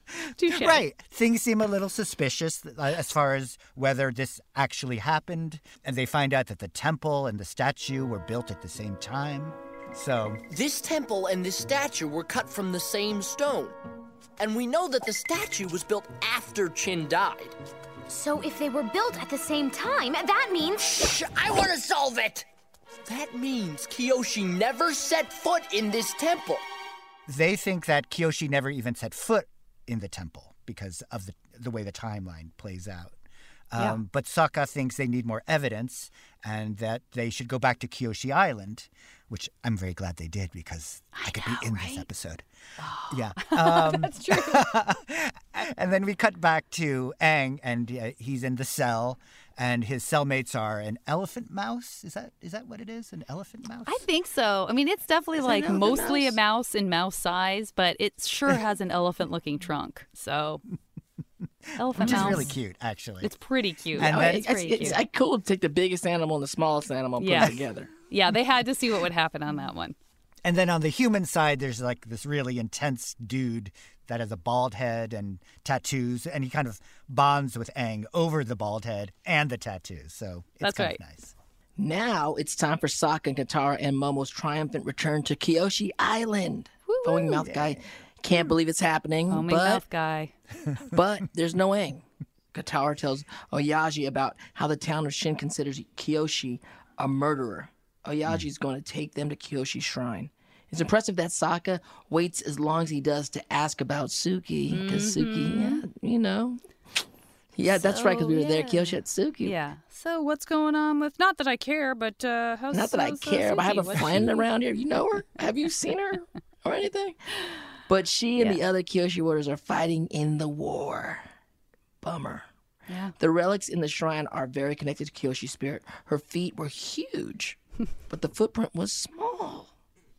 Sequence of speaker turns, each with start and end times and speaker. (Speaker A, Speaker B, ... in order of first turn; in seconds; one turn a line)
Speaker A: 0.2-0.8
Speaker B: 0.5-10.4
Speaker C: 10.5-13.7
Speaker C: 14.4-17.5
Speaker D: 18.1-21.1
Speaker C: 20.9-22.4
Speaker C: 23.1-26.6
Speaker B: 27.3-33.1
Speaker B: 33.7-42.5
Speaker A: 41.1-42.0
Speaker A: 42.8-44.7
Speaker B: 43.1-54.0
Speaker A: 53.9-60.6
Speaker E: 55.4-56.4
Speaker A: 61.8-62.5
Speaker B: 61.9-63.3
Speaker E: 62.1-62.4
Speaker A: 63.2-65.0
Speaker B: 64.0-64.9
Speaker E: 64.0-67.9
Speaker A: 67.2-67.6
Speaker A: 68.1-70.0
Speaker B: 70.4-81.3
Speaker A: 80.6-81.0
Speaker E: 81.8-89.8
Speaker A: 86.9-87.5
Speaker B: 87.5-87.8
Speaker A: 89.3-90.3
Speaker E: 90.9-106.6
Speaker A: 104.7-105.8
Speaker E: 107.6-109.5
Speaker A: 107.7-114.5
Speaker E: 112.7-121.3
Speaker E: 122.0-122.5
Speaker A: 122.9-123.1
Speaker E: 123.2-127.6
Speaker E: 128.1-129.7